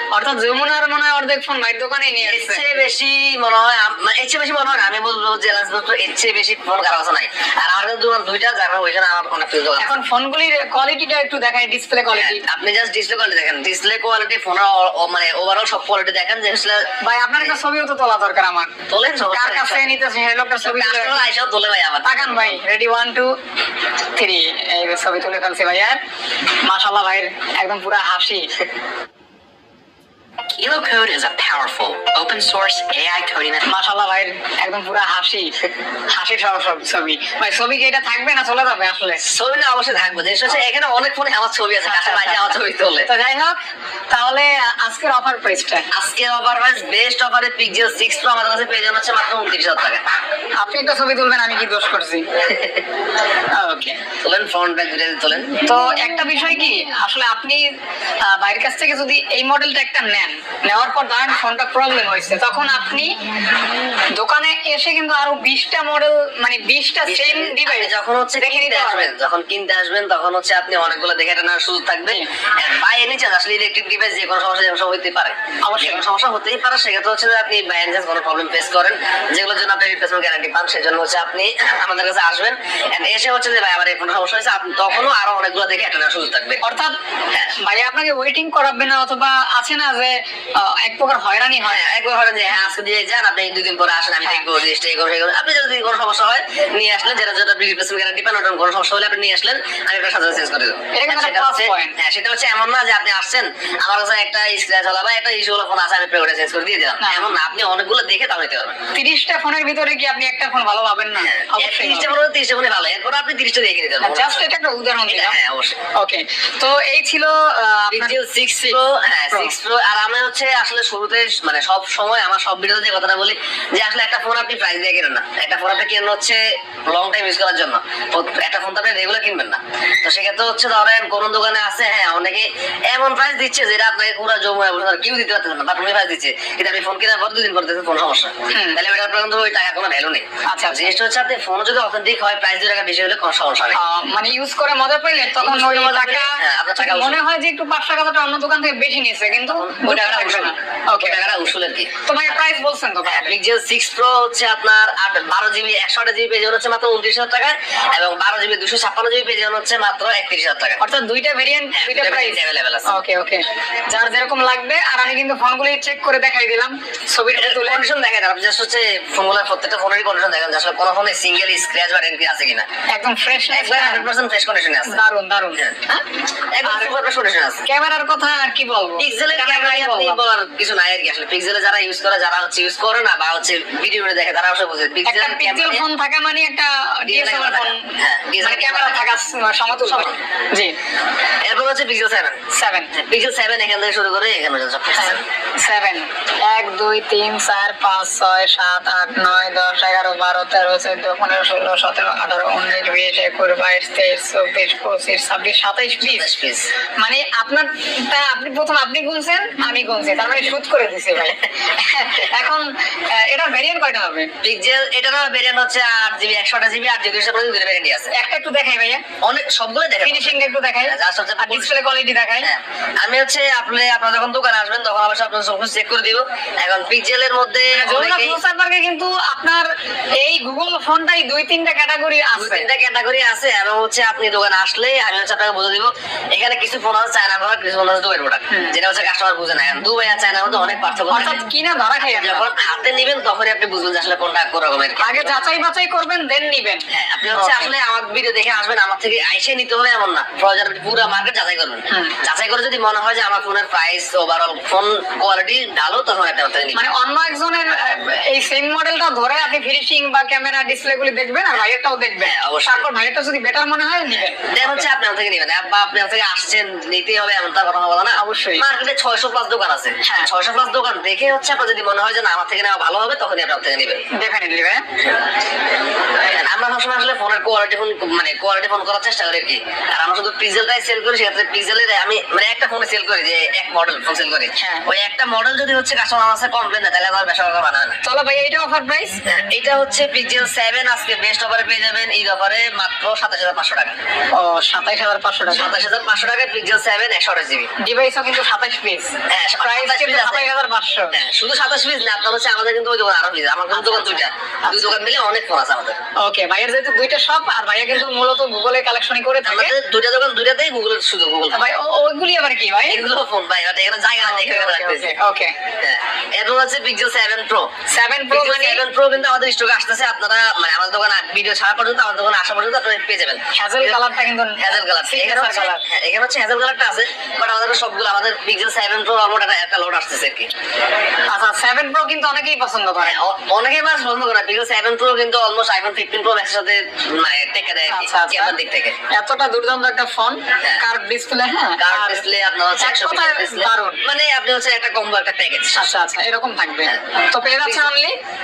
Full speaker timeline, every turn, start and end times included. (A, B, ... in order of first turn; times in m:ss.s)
0:00.1-0:02.6 A
0:02.2-0:09.9 B
0:09.8-0:12.4 A
0:12.2-0:17.6 B
0:17.0-0:18.7 A
0:18.9-0:19.8 B
0:19.3-0:21.3 A
0:20.6-0:22.6 B
0:22.0-0:23.3 A
0:24.1-0:26.0 A
0:26.6-0:28.5 A
0:30.5-0:33.6 C
0:33.6-0:35.5 A
0:36.1-0:39.2 A
0:39.2-0:43.1 B
0:41.8-0:43.6 A
0:44.1-0:45.9 A
0:45.9-0:50.0 B
0:50.6-0:52.2 A
0:52.4-0:52.8 B
0:53.6-0:54.0 A
0:54.2-0:55.5 B
0:55.6-0:57.7 A
0:58.2-1:03.2 A
1:04.1-1:09.1 A
1:07.0-1:26.6 B
1:15.6-1:16.0 A
1:26.6-1:27.0 A
1:27.6-1:31.8 A
1:31.6-1:48.8 B
1:40.9-1:41.9 A
1:47.0-1:47.3 A
1:48.9-1:52.1 A
1:51.2-1:54.5 B
1:54.0-1:55.4 A
1:55.1-1:55.8 B
1:56.0-1:58.8 A
1:57.9-2:23.8 B
2:18.5-2:18.8 A
2:20.5-2:20.9 A
2:23.7-2:31.3 A
2:25.4-2:27.2 B
2:29.4-2:32.4 B
2:32.0-2:33.3 A
2:33.0-2:40.8 B
2:40.8-2:47.8 A
2:41.7-2:42.9 B
2:47.3-2:52.7 B
2:52.9-2:54.1 A
2:53.5-2:55.0 B
2:54.9-2:56.0 A
2:56.5-2:57.6 B
2:56.6-2:56.9 A
2:57.6-3:00.2 A
2:59.0-3:05.8 B
3:05.0-3:07.9 A
3:07.1-3:09.0 B
3:08.4-3:10.7 A
3:09.8-3:10.2 B
3:11.4-3:12.4 B
3:12.5-3:12.9 A
3:12.9-3:15.2 B
3:15.0-3:26.3 A
3:26.0-3:26.7 B
3:27.0-3:34.3 A
3:34.4-3:38.1 B
3:38.1-3:39.0 A
3:39.2-3:41.8 B
3:40.0-3:42.5 A
3:42.4-3:48.4 B
3:47.7-3:52.7 A
3:52.4-4:01.4 B
4:01.1-4:02.4 A
4:02.0-4:05.4 B
4:05.0-4:07.7 A
4:06.9-4:16.9 B
4:11.9-4:12.2 A
4:16.7-4:24.9 A
4:22.2-4:22.8 B
4:24.3-4:34.0 B
4:28.2-4:28.6 A
4:30.0-4:30.3 A
4:34.2-4:34.8 A
4:36.3-4:48.0 B
4:44.6-4:44.8 A
4:48.0-4:49.2 A
4:49.2-4:54.0 B
4:54.4-4:55.7 A
4:55.5-4:57.7 B
4:57.8-5:01.1 A
4:59.3-5:00.5 B
5:01.1-5:06.0 B
5:03.7-5:05.0 A
5:06.2-5:09.7 A
5:09.4-5:11.7 B
5:11.5-5:13.0 A
5:12.9-5:15.1 B
5:14.2-5:15.5 A
5:15.8-5:17.7 B
5:17.9-5:18.8 A
5:18.3-5:30.5 B
5:23.5-5:25.8 A
5:31.3-5:33.2 A
5:33.0-5:38.9 B
5:37.9-5:38.6 A
5:39.1-5:42.2 A
5:41.8-5:45.9 B
5:42.8-5:44.0 A
5:45.7-5:48.2 A
5:46.8-5:47.9 B